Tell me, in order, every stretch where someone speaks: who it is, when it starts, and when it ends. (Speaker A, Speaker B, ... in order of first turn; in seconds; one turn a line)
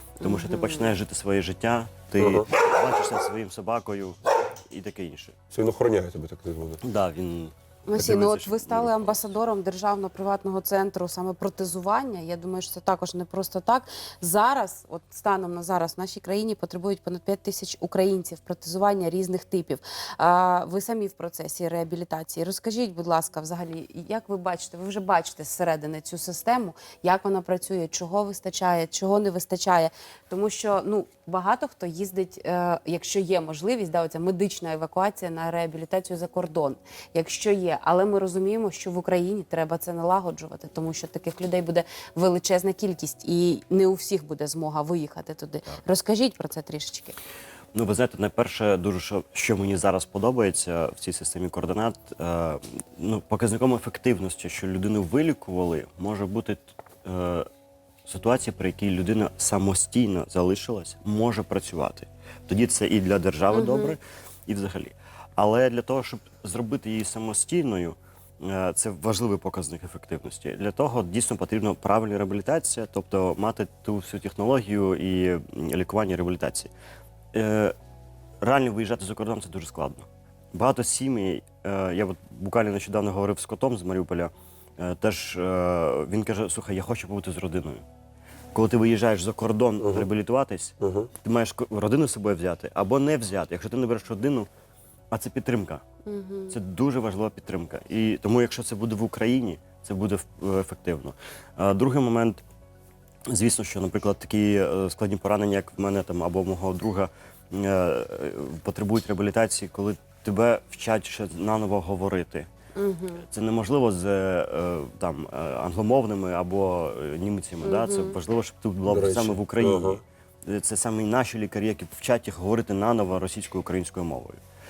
Speaker A: 0.2-5.4
Speaker B: 0.2-0.9
Speaker C: 2.2-2.5
Speaker C: 5.5-6.8
Speaker A: 6.8-9.3
Speaker B: 7.9-47.1
Speaker A: 47.7-57.5
Speaker A: 58.0-76.7
Speaker B: 63.5-64.0
Speaker A: 77.3-77.7
Speaker A: 78.4-87.8
Speaker A: 88.5-94.5
Speaker C: 89.8-90.1
Speaker C: 90.8-91.1
Speaker A: 95.1-95.8
Speaker B: 96.0-96.6
Speaker A: 96.5-102.4
Speaker A: 103.3-112.5
Speaker B: 112.8-113.2
Speaker A: 113.3-124.4
Speaker B: 117.6-118.2
Speaker C: 118.9-120.0